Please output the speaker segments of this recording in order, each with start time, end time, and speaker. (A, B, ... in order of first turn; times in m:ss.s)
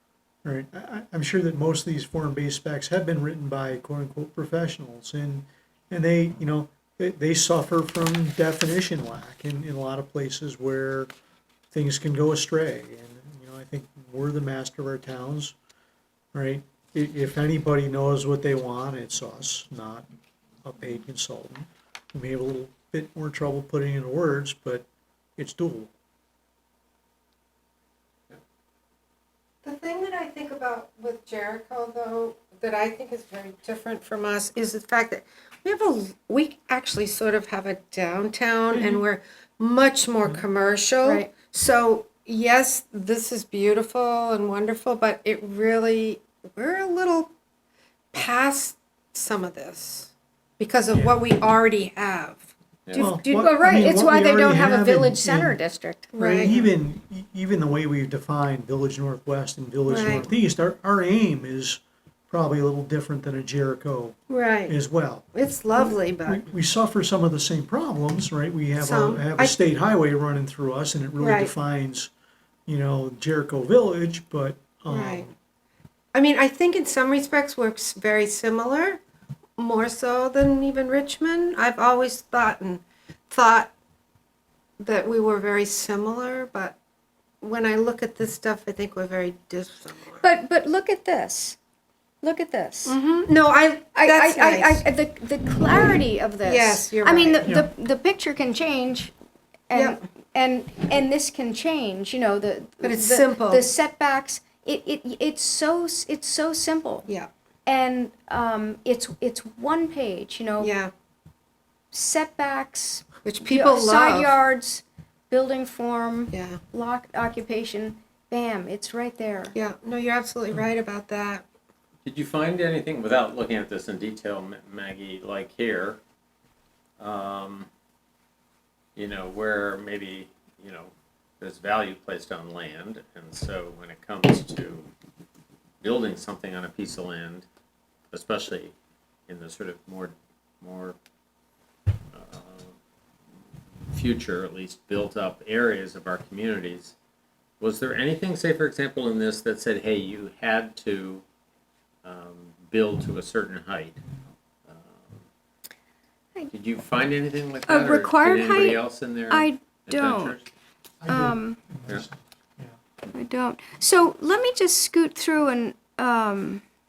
0:00.4-0:11.1 A
0:11.7-0:15.5 A
0:16.3-0:20.0 A
0:20.6-0:24.8 A
0:25.4-0:25.9 A
0:29.6-0:47.3 B
0:38.7-0:39.0 A
0:41.0-0:41.3 C
0:48.1-0:53.5 B
0:50.9-0:51.2 D
0:53.0-0:55.6 A
0:53.2-0:56.5 C
0:56.1-0:56.6 B
0:56.2-1:12.1 A
0:59.9-1:00.3 B
1:04.3-1:04.7 B
1:05.3-1:06.5 B
1:08.8-1:09.6 B
1:11.2-1:11.5 B
1:12.7-1:15.3 A
1:14.9-1:15.3 B
1:16.1-1:19.0 B
1:19.6-1:23.7 B
1:24.8-1:26.7 B
1:27.4-1:30.2 B
1:30.2-1:31.6 C
1:32.2-1:33.0 C
1:32.8-1:34.8 B
1:34.0-1:39.1 C
1:35.6-1:37.4 B
1:37.4-1:37.7 A
1:39.7-1:47.1 C
1:39.7-1:40.0 B
1:42.8-1:43.7 B
1:47.6-1:50.7 C
1:50.6-1:50.9 B
1:51.9-1:59.5 C
1:53.2-1:54.3 B
1:56.3-1:56.6 B
1:59.5-2:01.4 B
2:02.0-2:06.0 D
2:07.0-2:07.7 D
2:09.0-2:14.9 D
2:15.8-2:17.4 D
2:18.1-2:18.7 D
2:19.3-2:21.0 D
2:22.1-2:22.7 D
2:23.9-2:26.9 D
2:27.6-2:31.2 D
2:32.0-2:34.0 D
2:34.7-2:35.2 D
2:36.5-2:40.5 D
2:37.7-2:40.4 C
2:41.0-2:42.8 A
2:41.1-2:41.6 C
2:43.1-2:46.6 C